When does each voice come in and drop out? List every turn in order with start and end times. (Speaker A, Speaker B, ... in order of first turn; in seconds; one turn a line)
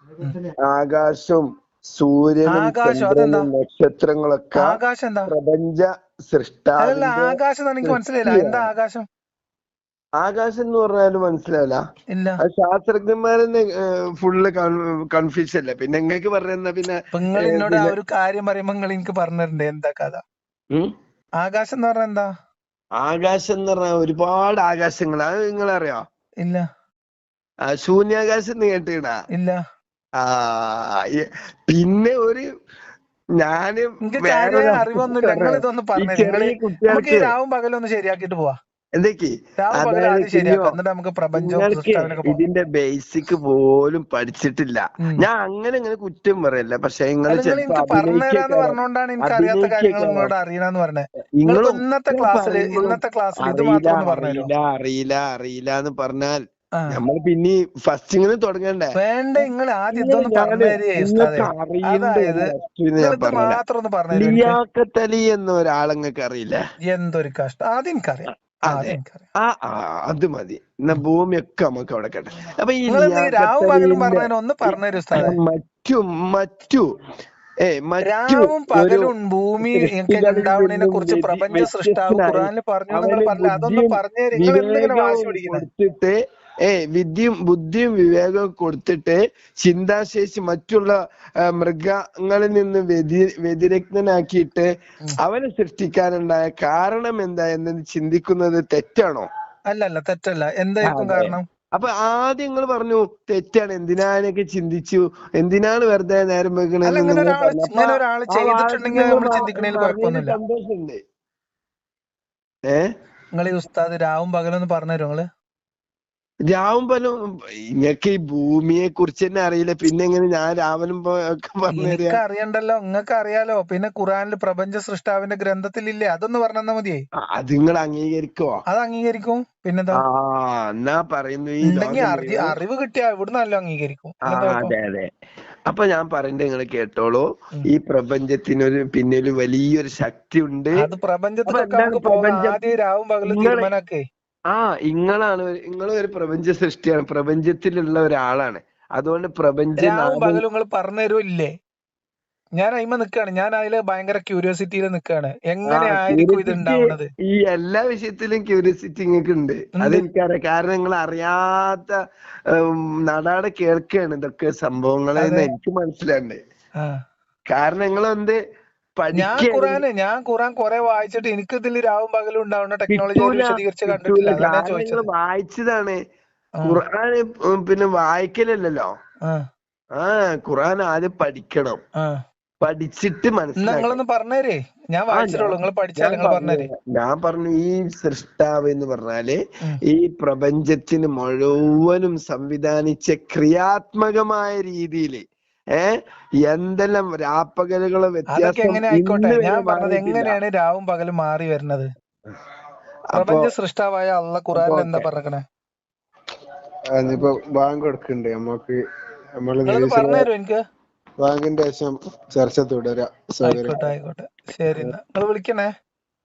Speaker A: 0.6-8.7
Speaker B: 2.5-3.5
Speaker B: 4.6-5.3
Speaker B: 6.8-9.1
Speaker A: 10.2-11.8
Speaker B: 12.1-12.4
Speaker A: 12.4-17.9
Speaker B: 17.1-20.2
Speaker B: 21.4-22.3
Speaker A: 23.0-26.0
Speaker A: 27.7-29.2
Speaker A: 30.2-32.5
Speaker A: 33.4-37.3
Speaker B: 34.0-38.6
Speaker A: 39.0-40.8
Speaker B: 39.6-42.4
Speaker A: 41.4-50.3
Speaker B: 47.3-54.5
Speaker A: 51.4-63.6
Speaker B: 59.0-64.6
Speaker A: 64.2-66.6
Speaker B: 66.9-69.3
Speaker A: 68.7-76.9
Speaker B: 72.9-75.3
Speaker A: 77.6-79.1
Speaker B: 78.0-85.7
Speaker A: 79.6-94.7
Speaker A: 95.2-99.3
Speaker B: 99.7-101.5
Speaker A: 100.8-111.0
Speaker B: 106.8-110.4
Speaker A: 112.7-112.9
Speaker B: 113.4-115.3
Speaker A: 116.5-122.2
Speaker B: 121.8-127.0
Speaker A: 127.2-128.6
Speaker B: 128.7-130.0
Speaker A: 130.0-132.6
Speaker B: 131.7-134.7
Speaker A: 134.2-135.1
Speaker A: 135.7-140.8
Speaker B: 140.8-144.0
Speaker A: 141.5-142.6
Speaker A: 143.2-143.7
Speaker A: 144.5-150.4
Speaker B: 149.8-151.5
Speaker B: 152.6-157.1
Speaker A: 155.7-162.0
Speaker B: 159.8-160.1
Speaker A: 162.5-166.4
Speaker B: 165.2-165.5
Speaker A: 167.5-168.4
Speaker A: 169.0-169.8
Speaker B: 169.1-175.1
Speaker A: 172.9-176.0
Speaker A: 176.6-178.9
Speaker A: 180.0-181.8
Speaker A: 182.6-184.0
Speaker B: 183.6-186.7
Speaker A: 185.1-200.4
Speaker B: 198.3-201.9
Speaker A: 203.1-203.5
Speaker B: 203.2-205.4
Speaker A: 204.6-205.1
Speaker C: 206.9-208.8
Speaker C: 209.4-210.3
Speaker B: 209.7-210.6
Speaker C: 211.2-213.9
Speaker B: 213.4-215.7